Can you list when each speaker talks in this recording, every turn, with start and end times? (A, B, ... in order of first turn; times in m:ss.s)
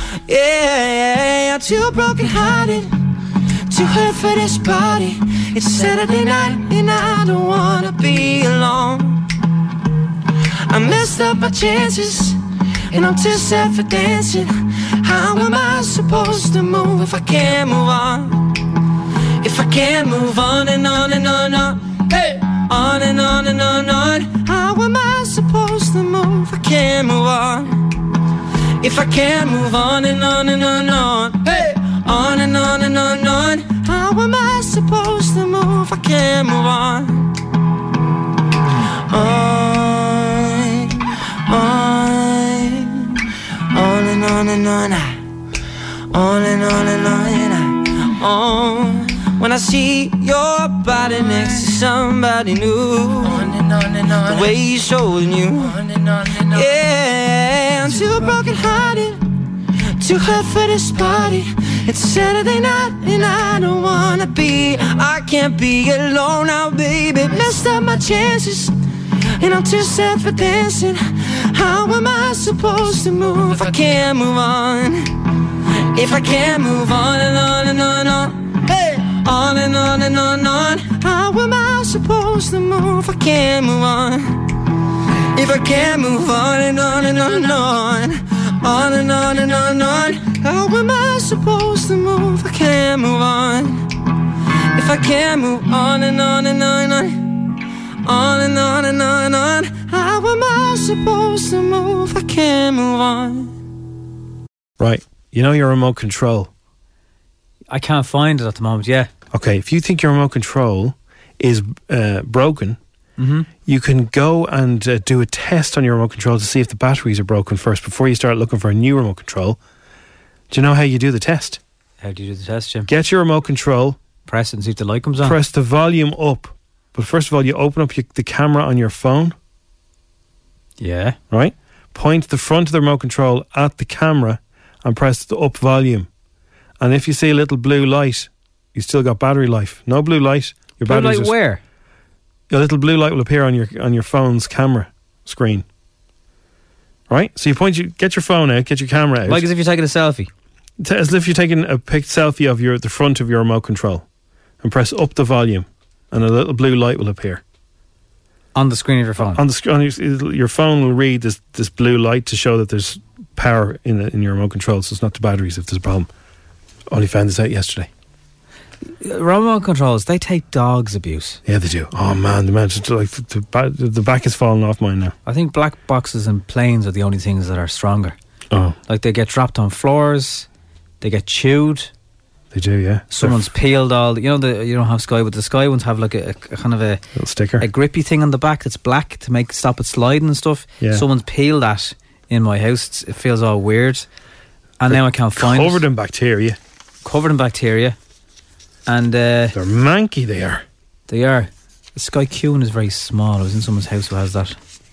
0:00.3-0:03.0 A
0:03.7-0:09.2 A
0:10.7-0:12.4 A
0:12.9-0:18.5 A
0:19.4-0:27.8 A
0:28.8-0:37.3 A
0:39.1-0:43.2 A
0:43.7-0:45.2 A
0:46.1-0:59.3 A
1:00.0-1:08.8 A
1:09.4-1:15.1 A
1:15.9-1:24.4 A
1:25.3-1:33.8 A
1:34.7-1:37.3 A
1:38.0-1:43.6 A
1:44.8-1:46.5 B
1:47.7-1:49.1 C
1:49.3-1:52.8 B
1:53.2-1:53.5 C
1:53.7-1:59.6 B
2:00.5-2:01.6 B
2:02.0-2:02.9 C
2:02.9-2:04.0 B
2:04.3-2:05.4 C
2:05.2-2:09.4 B
2:10.8-2:11.2 C
2:11.3-2:16.1 B
2:16.8-2:21.4 B
2:20.8-2:21.6 C
2:22.5-2:25.6 B
2:27.1-2:29.4 B
2:29.3-2:30.3 C
2:30.8-2:34.0 B
2:34.6-2:37.4 B
2:38.6-2:39.4 C
2:39.3-2:46.1 B
2:46.9-2:47.9 B
2:49.0-2:51.4 C
2:51.5-2:55.1 B
2:55.3-2:58.2 C
2:58.9-3:00.5 C
3:01.0-3:01.9 C
3:02.5-3:03.5 B
3:03.1-3:07.0 C
3:07.2-3:07.7 B
3:07.6-3:14.0 C
3:14.8-3:15.8 C
3:14.9-3:16.6 B
3:17.0-3:18.0 C
3:18.9-3:19.6 C
3:19.5-3:20.6 B
3:21.1-3:24.6 C